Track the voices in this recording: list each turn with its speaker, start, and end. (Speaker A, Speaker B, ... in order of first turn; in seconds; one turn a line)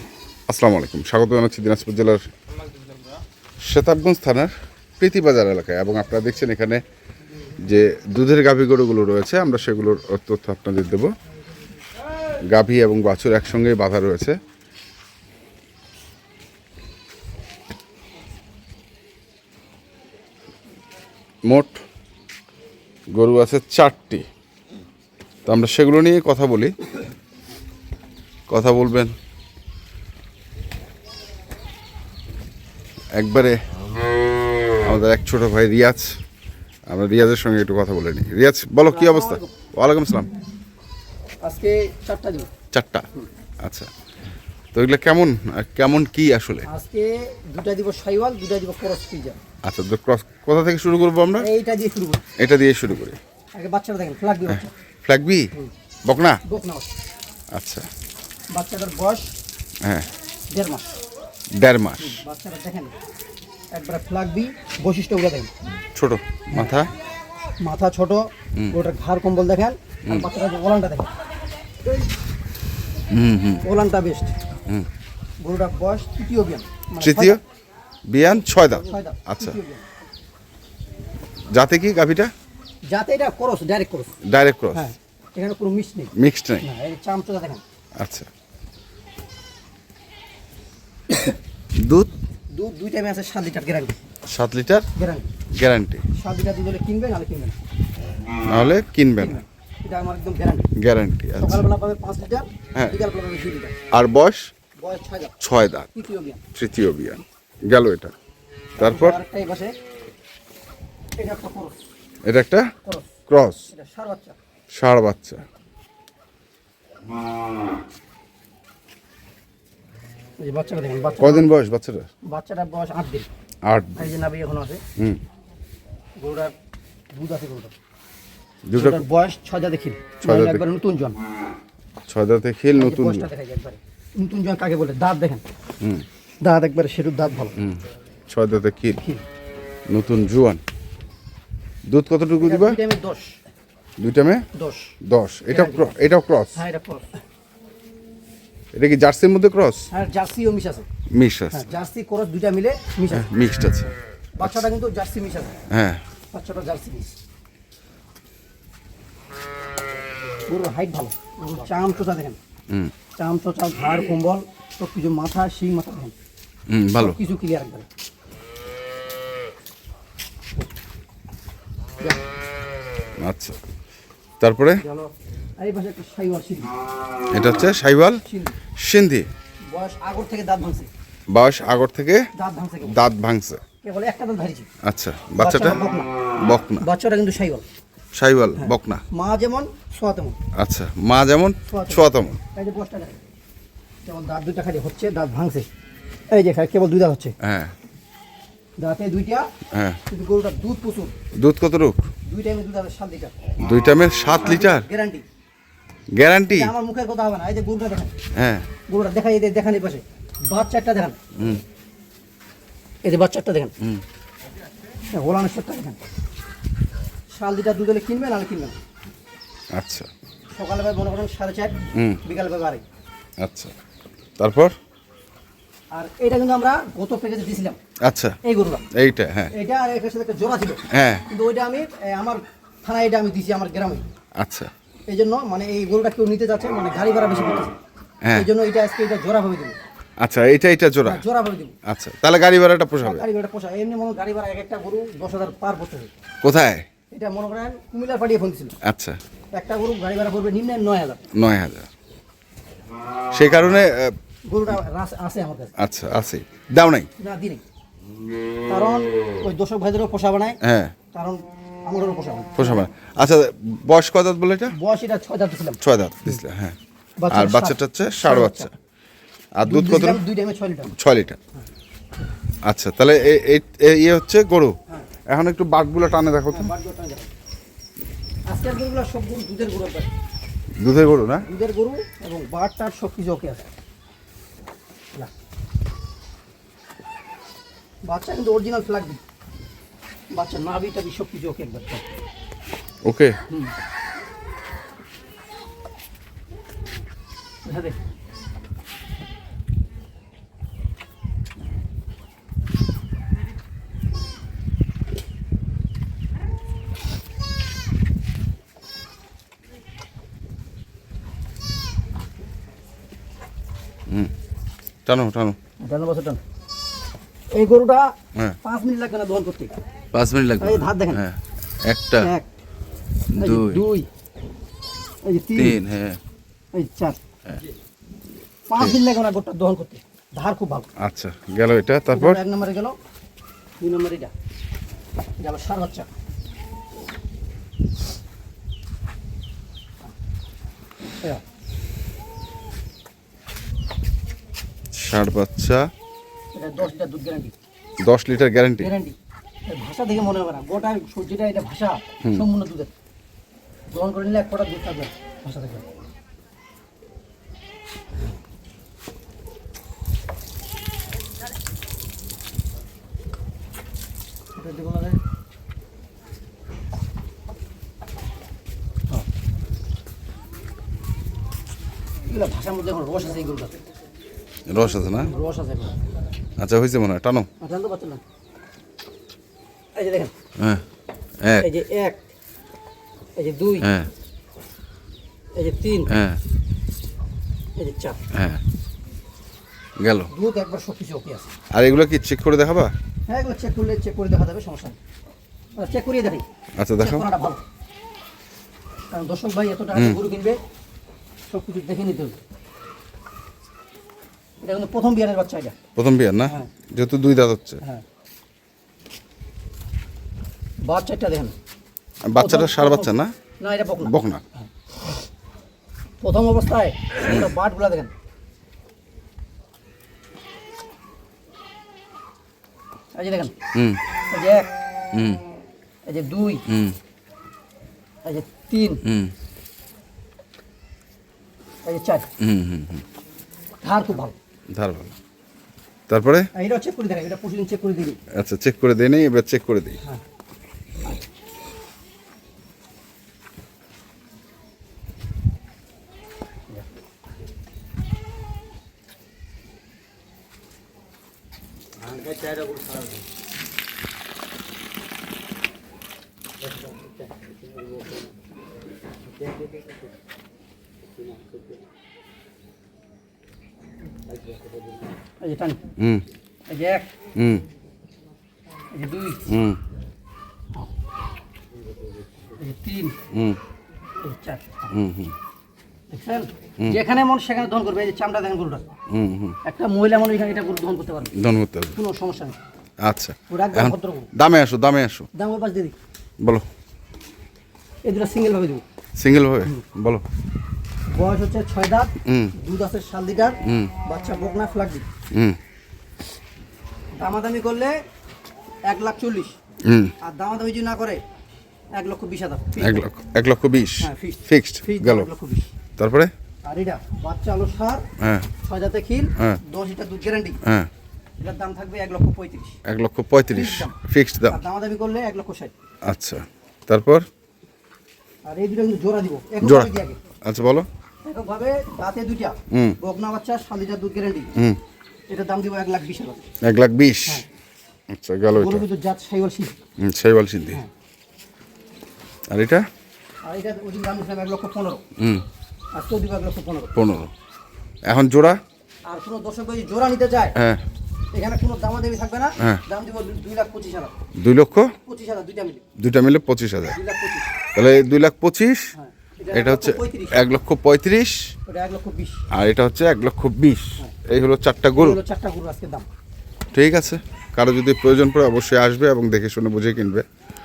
Speaker A: 0.5-2.2
Speaker A: 3.7-6.8
Speaker A: 7.7-11.1
Speaker A: 12.5-14.4
Speaker A: 21.5-21.8
Speaker A: 23.1-24.3
Speaker A: 25.5-26.8
Speaker A: 28.5-29.1
Speaker A: 33.2-33.6
Speaker A: 34.8-36.2
Speaker A: 36.9-40.3
Speaker B: 38.9-39.5
Speaker B: 41.4-42.5
Speaker A: 42.7-43.1
Speaker A: 43.6-43.9
Speaker A: 44.7-46.7
Speaker B: 46.7-49.4
Speaker A: 49.6-51.5
Speaker B: 51.4-52.2
Speaker A: 52.4-53.2
Speaker B: 53.5-54.7
Speaker A: 54.5-55.5
Speaker A: 56.0-56.4
Speaker B: 56.5-56.9
Speaker A: 57.5-57.9
Speaker B: 58.5-59.3
Speaker B: 60.5-61.0
Speaker A: 61.6-62.2
Speaker B: 62.0-62.9
Speaker B: 63.7-65.5
Speaker A: 66.0-66.9
Speaker B: 67.6-71.1
Speaker A: 73.1-73.7
Speaker B: 73.6-74.3
Speaker B: 75.4-77.4
Speaker A: 77.0-77.4
Speaker A: 78.1-79.6
Speaker B: 78.5-79.8
Speaker A: 81.5-82.3
Speaker B: 82.9-84.2
Speaker A: 84.2-84.9
Speaker B: 84.7-87.6
Speaker A: 86.2-86.7
Speaker A: 88.0-88.3
Speaker B: 91.1-91.4
Speaker A: 91.8-92.1
Speaker B: 92.5-94.0
Speaker A: 94.3-94.9
Speaker B: 95.0-95.3
Speaker A: 95.5-96.0
Speaker B: 96.2-97.6
Speaker A: 98.5-99.4
Speaker B: 99.2-100.7
Speaker A: 100.8-101.6
Speaker B: 101.4-103.8
Speaker A: 103.9-104.5
Speaker B: 104.8-105.3
Speaker A: 105.4-105.9
Speaker B: 105.9-106.4
Speaker A: 106.5-108.1
Speaker A: 108.8-109.2
Speaker B: 108.8-109.7
Speaker B: 111.2-111.8
Speaker A: 112.2-112.7
Speaker B: 112.8-113.1
Speaker A: 113.3-113.7
Speaker B: 113.7-114.4
Speaker A: 114.7-115.4
Speaker B: 120.4-121.5
Speaker A: 121.2-122.1
Speaker B: 122.2-123.3
Speaker A: 123.7-124.1
Speaker B: 124.0-124.8
Speaker B: 126.2-126.5
Speaker B: 127.1-127.7
Speaker A: 128.7-129.0
Speaker B: 128.8-131.2
Speaker A: 130.2-130.6
Speaker A: 132.1-133.3
Speaker B: 132.8-135.4
Speaker B: 136.4-137.5
Speaker A: 137.6-139.0
Speaker B: 139.0-139.2
Speaker A: 139.9-140.6
Speaker A: 141.9-142.8
Speaker B: 142.4-143.4
Speaker A: 144.0-144.4
Speaker B: 144.5-145.0
Speaker A: 145.1-146.6
Speaker B: 145.5-145.9
Speaker B: 146.5-147.2
Speaker A: 148.7-149.9
Speaker B: 149.9-150.9
Speaker A: 151.2-151.7
Speaker B: 151.5-153.3
Speaker A: 153.1-153.9
Speaker B: 154.4-155.6
Speaker A: 155.7-156.0
Speaker B: 156.3-157.2
Speaker B: 160.5-162.4
Speaker B: 163.2-166.1
Speaker A: 166.7-167.2
Speaker B: 166.9-167.9
Speaker A: 173.2-173.6
Speaker A: 174.4-174.8
Speaker B: 174.8-176.7
Speaker A: 177.3-178.2
Speaker B: 178.2-178.6
Speaker A: 178.8-179.3
Speaker B: 179.7-180.9
Speaker A: 181.3-182.3
Speaker B: 182.4-183.0
Speaker A: 182.8-183.6
Speaker B: 183.8-184.7
Speaker A: 184.8-185.8
Speaker B: 185.4-186.1
Speaker A: 186.4-186.8
Speaker B: 186.8-187.7
Speaker A: 188.2-189.0
Speaker B: 188.6-190.4
Speaker A: 190.6-192.4
Speaker B: 191.7-193.2
Speaker B: 194.1-195.7
Speaker B: 196.3-197.3
Speaker A: 197.4-197.7
Speaker B: 198.8-199.5
Speaker A: 199.7-200.0
Speaker B: 200.1-201.1
Speaker A: 201.3-202.0
Speaker B: 202.3-203.4
Speaker A: 203.6-204.9
Speaker B: 204.4-205.2
Speaker A: 206.2-206.7
Speaker B: 206.5-208.2
Speaker A: 208.3-208.7
Speaker B: 208.9-211.2
Speaker B: 213.0-213.7
Speaker B: 215.1-216.0
Speaker B: 217.3-218.8
Speaker A: 219.7-220.1
Speaker B: 220.5-222.8
Speaker A: 223.4-223.7
Speaker A: 224.4-224.7
Speaker B: 225.9-227.8
Speaker A: 228.0-228.4
Speaker B: 228.4-228.9
Speaker A: 228.9-229.5
Speaker B: 229.5-234.1
Speaker A: 230.9-231.2
Speaker A: 234.4-234.7
Speaker B: 235.1-237.7
Speaker B: 238.3-239.8
Speaker A: 240.2-241.2
Speaker B: 241.1-241.8
Speaker A: 241.9-243.2
Speaker B: 243.0-246.1
Speaker A: 246.4-246.8
Speaker B: 247.1-248.8
Speaker A: 248.8-249.2
Speaker B: 249.5-251.3
Speaker A: 251.3-251.9
Speaker A: 253.3-254.2
Speaker B: 254.4-255.7
Speaker A: 255.8-257.1
Speaker B: 257.2-257.6
Speaker B: 258.7-260.6
Speaker A: 260.6-260.9
Speaker B: 261.1-262.9
Speaker A: 262.6-264.8
Speaker B: 264.7-266.4
Speaker A: 265.8-266.8
Speaker B: 267.2-268.7
Speaker A: 267.3-268.7
Speaker A: 269.6-270.2
Speaker B: 269.6-270.9
Speaker A: 270.9-271.4
Speaker A: 272.7-274.8
Speaker A: 275.3-276.7
Speaker B: 276.5-277.3
Speaker B: 278.5-280.1
Speaker A: 280.8-281.5
Speaker B: 281.4-283.7
Speaker B: 288.1-289.2
Speaker B: 290.3-292.0
Speaker A: 293.1-293.4
Speaker B: 297.6-298.0
Speaker A: 315.1-315.6
Speaker B: 315.8-316.4
Speaker B: 317.5-319.7
Speaker A: 320.1-322.3
Speaker B: 320.6-321.2
Speaker B: 322.2-322.5
Speaker A: 323.3-323.9
Speaker B: 323.3-324.1
Speaker B: 325.2-325.8
Speaker A: 325.5-326.2
Speaker B: 326.7-327.2
Speaker B: 328.7-330.9
Speaker A: 331.0-332.4
Speaker B: 332.1-333.0
Speaker B: 333.8-334.3
Speaker B: 335.4-336.1
Speaker A: 344.9-345.9
Speaker B: 346.5-347.5
Speaker A: 348.0-348.9
Speaker B: 348.8-349.1
Speaker B: 349.7-352.9
Speaker B: 353.9-355.8
Speaker B: 364.6-365.2
Speaker B: 372.3-373.7
Speaker A: 374.7-375.3
Speaker B: 374.8-376.0
Speaker A: 376.6-377.5
Speaker B: 377.6-378.2
Speaker B: 379.9-380.3
Speaker A: 380.6-380.9
Speaker A: 381.4-381.7
Speaker B: 381.6-382.2
Speaker B: 383.4-383.9
Speaker A: 383.8-384.1
Speaker B: 385.6-386.1
Speaker A: 386.1-386.4
Speaker B: 387.8-388.2
Speaker A: 388.3-388.6
Speaker A: 390.0-390.3
Speaker B: 390.3-391.5
Speaker A: 391.7-392.9
Speaker B: 393.3-395.0
Speaker B: 395.8-396.5
Speaker A: 396.8-397.2
Speaker B: 397.0-397.6
Speaker B: 399.1-400.6
Speaker A: 399.9-400.2
Speaker B: 401.5-402.4
Speaker B: 404.6-405.8
Speaker A: 406.0-407.8
Speaker B: 410.9-411.5
Speaker A: 412.3-413.3
Speaker B: 412.4-414.7
Speaker A: 414.0-414.4
Speaker B: 416.2-418.1
Speaker B: 423.1-423.5
Speaker A: 423.7-424.0
Speaker B: 424.3-424.7
Speaker A: 425.1-425.4
Speaker B: 426.1-426.6
Speaker A: 426.7-427.0
Speaker B: 428.2-429.0
Speaker A: 429.1-429.3
Speaker B: 431.8-432.3
Speaker A: 432.4-433.0
Speaker B: 433.8-434.4
Speaker A: 434.7-435.1
Speaker A: 436.1-436.5
Speaker B: 436.5-438.2
Speaker A: 438.3-440.0
Speaker B: 452.0-453.2
Speaker B: 457.0-458.2
Speaker B: 465.4-465.8
Speaker A: 466.0-466.3
Speaker B: 466.7-467.1
Speaker A: 467.4-467.7
Speaker B: 468.9-469.6
Speaker A: 469.5-469.8
Speaker B: 472.6-473.2
Speaker A: 473.3-473.6
Speaker B: 474.2-474.9
Speaker A: 474.9-475.4
Speaker B: 476.1-478.9
Speaker A: 479.1-479.6
Speaker B: 479.6-481.3
Speaker A: 481.4-482.0
Speaker B: 482.0-482.6
Speaker A: 483.0-485.3
Speaker B: 483.5-484.3
Speaker B: 485.3-486.0
Speaker B: 488.1-488.8
Speaker A: 489.2-490.2
Speaker B: 491.1-495.1
Speaker A: 492.2-492.5
Speaker A: 493.6-493.9
Speaker A: 495.3-495.6
Speaker B: 497.2-498.0
Speaker B: 498.9-499.6
Speaker A: 499.8-500.1
Speaker B: 500.2-501.2
Speaker B: 501.9-503.0
Speaker A: 502.8-505.3
Speaker B: 504.0-505.7
Speaker A: 506.0-506.3
Speaker B: 506.6-508.1
Speaker A: 508.2-508.5
Speaker B: 508.6-510.6
Speaker A: 510.6-510.9
Speaker B: 511.4-512.8
Speaker A: 512.9-514.6
Speaker B: 513.5-514.0
Speaker B: 514.5-515.7
Speaker A: 516.0-517.2
Speaker B: 518.5-520.2
Speaker A: 519.6-519.9
Speaker A: 520.4-520.9
Speaker B: 521.2-524.5
Speaker A: 522.7-523.0
Speaker B: 525.3-526.5
Speaker A: 526.6-527.4
Speaker A: 528.1-528.9
Speaker B: 528.5-529.8
Speaker A: 530.0-530.8
Speaker A: 532.5-532.9
Speaker B: 533.4-535.0
Speaker A: 535.2-535.5
Speaker B: 535.9-536.9
Speaker A: 537.0-537.3
Speaker A: 538.1-538.6
Speaker B: 539.1-540.6
Speaker A: 540.6-540.8
Speaker B: 541.3-544.1
Speaker A: 544.4-544.9
Speaker B: 545.0-545.8
Speaker A: 546.0-547.0
Speaker B: 546.9-547.5
Speaker A: 547.8-548.9
Speaker B: 548.9-550.4
Speaker A: 549.5-551.5
Speaker B: 551.7-552.5
Speaker A: 552.5-555.2
Speaker B: 555.0-556.1
Speaker A: 556.7-560.2